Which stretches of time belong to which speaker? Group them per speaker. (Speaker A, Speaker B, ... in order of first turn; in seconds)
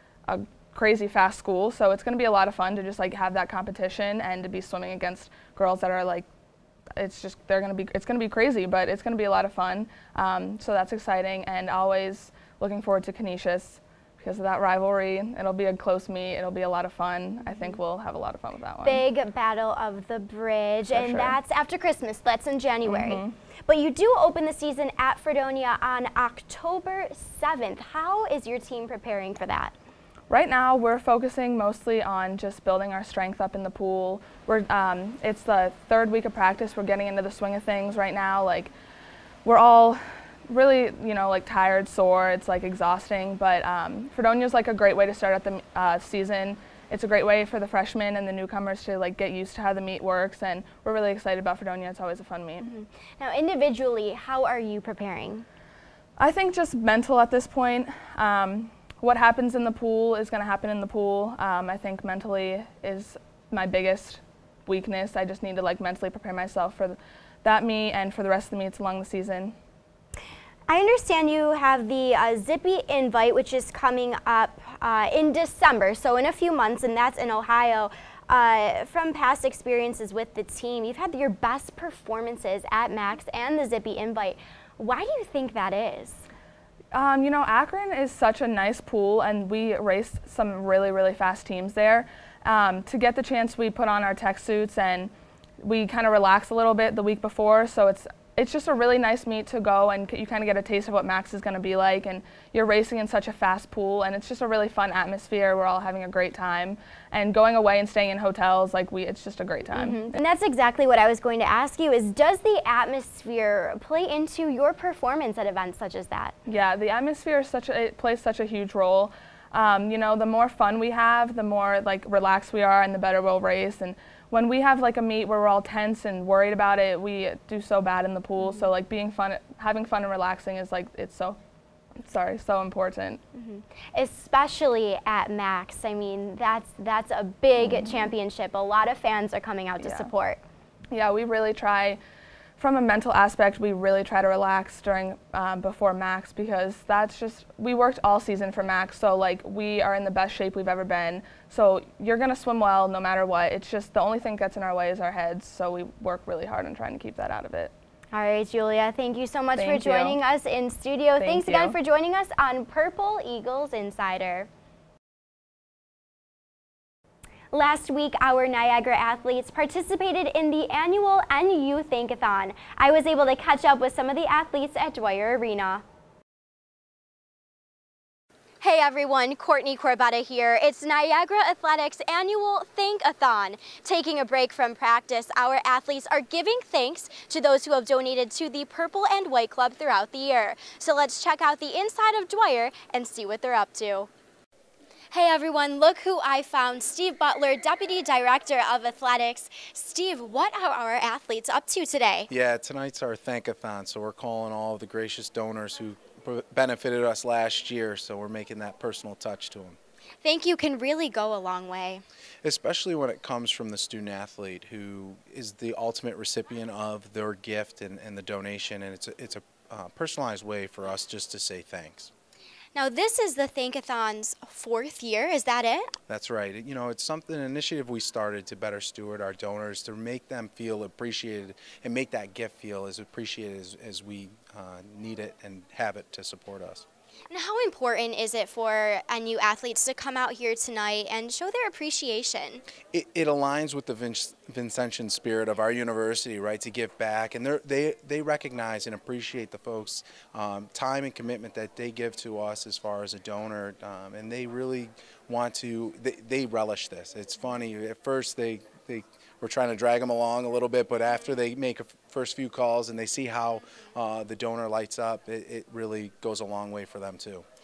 Speaker A: 0.3-6.2, 7.0-19.0, 20.9-21.4, 22.8-23.3, 30.3-38.7, 39.4-52.6, 56.2-69.5, 86.9-110.2, 116.4-131.4, 132.0-133.2, 139.8-140.1, 140.9-142.0, 142.6-157.7, 159.6-160.2, 161.2-161.8
Speaker B: 17.4-17.8, 18.8-29.8, 52.6-55.5, 70.7-86.3, 109.7-116.3, 128.4-128.7, 133.3-140.4, 158.1-164.5, 167.5-175.8, 178.6-194.1, 195.1-202.3, 210.2-212.0, 222.7-225.9, 237.3-242.6
Speaker C: 202.3-209.8, 212.4-222.1, 226.1-236.8, 242.9-267.4